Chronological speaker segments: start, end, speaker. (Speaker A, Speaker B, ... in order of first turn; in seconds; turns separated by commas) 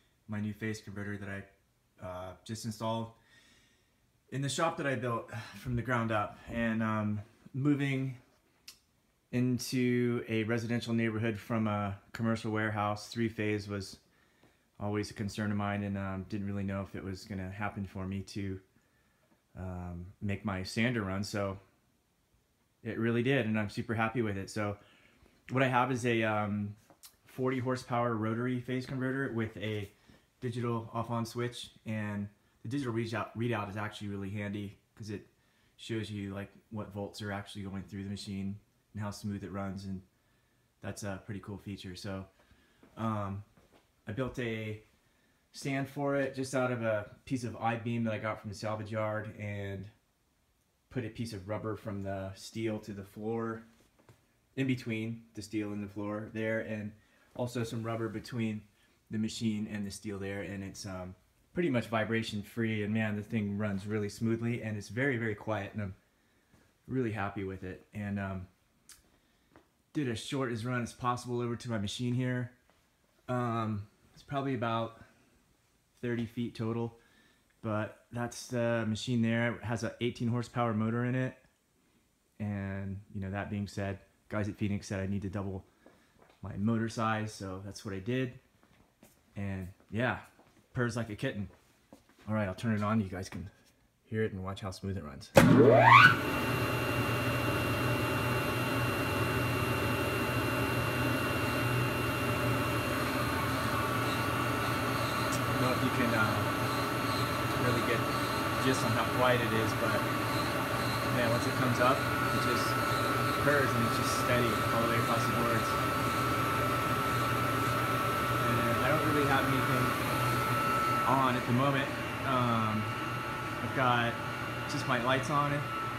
Speaker A: 0.3-1.5, Speaker A: 2.0-3.2, Speaker A: 4.3-8.2, Speaker A: 9.3-14.0, Speaker A: 14.8-18.6, Speaker A: 19.5-21.6, Speaker A: 22.8-24.8, Speaker A: 25.5-40.0, Speaker A: 40.8-42.3, Speaker A: 43.0-43.5, Speaker A: 44.0-44.8, Speaker A: 45.5-49.9, Speaker A: 50.9-53.7, Speaker A: 54.5-66.0, Speaker A: 66.9-68.5, Speaker A: 69.9-72.5, Speaker A: 73.3-75.0, Speaker A: 75.9-77.0, Speaker A: 77.6-81.4, Speaker A: 82.4-85.7, Speaker A: 86.4-88.4, Speaker A: 89.3-91.5, Speaker A: 92.2-93.5, Speaker A: 94.0-95.4, Speaker A: 105.5-106.5, Speaker A: 107.5-110.1, Speaker A: 111.1-112.8, Speaker A: 113.4-115.8, Speaker A: 118.4-120.0, Speaker A: 121.0-123.0, Speaker A: 123.6-125.7